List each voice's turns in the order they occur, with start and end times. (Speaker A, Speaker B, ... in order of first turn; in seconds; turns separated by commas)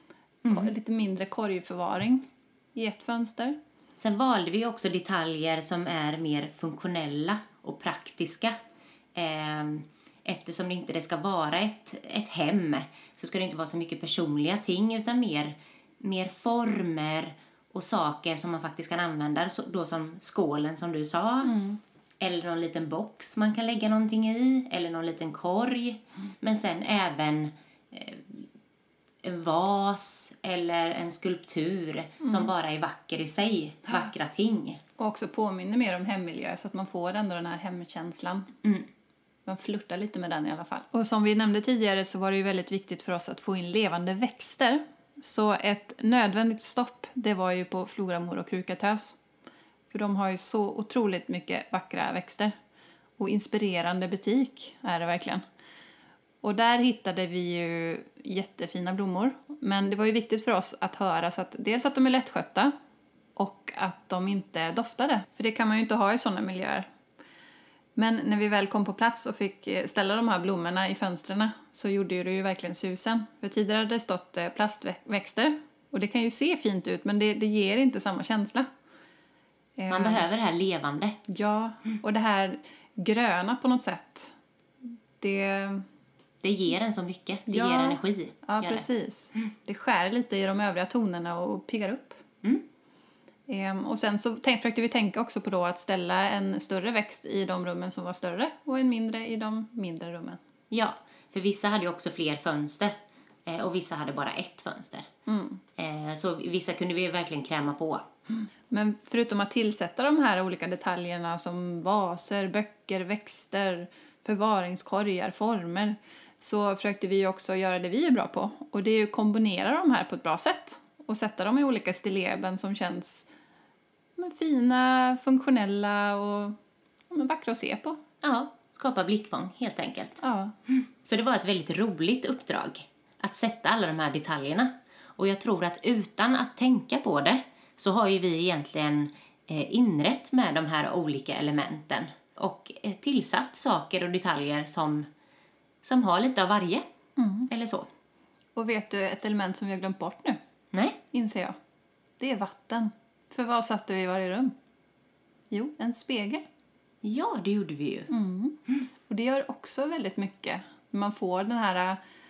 Speaker A: 0.5-0.7, Speaker B: 0.5-3.6, Speaker A: 4.0-8.6, Speaker A: 9.1-21.5, Speaker B: 21.4-21.8, Speaker A: 22.2-28.4, Speaker A: 29.2-34.8, Speaker B: 32.2-32.5, Speaker B: 35.0-38.5, Speaker B: 39.5-49.2, Speaker B: 49.9-52.5, Speaker B: 53.2-55.4, Speaker B: 56.4-62.7, Speaker B: 63.4-66.8, Speaker B: 68.0-78.7, Speaker B: 79.8-80.2, Speaker A: 79.9-81.2, Speaker B: 81.3-84.3, Speaker B: 85.2-85.8, Speaker A: 86.4-88.8, Speaker B: 87.5-92.2, Speaker B: 93.5-100.4, Speaker A: 100.7-102.9, Speaker A: 103.5-105.1, Speaker B: 105.3-105.6, Speaker A: 105.8-108.0, Speaker B: 108.7-123.3, Speaker B: 124.2-126.6, Speaker B: 127.1-128.0, Speaker A: 128.2-145.1, Speaker B: 130.2-130.5, Speaker A: 145.8-146.9, Speaker B: 147.2-147.5, Speaker A: 147.5-147.9, Speaker B: 148.6-150.4, Speaker A: 150.7-151.0, Speaker B: 151.1-151.6, Speaker B: 152.2-154.5, Speaker B: 155.5-156.4, Speaker A: 157.0-158.1, Speaker B: 158.1-162.0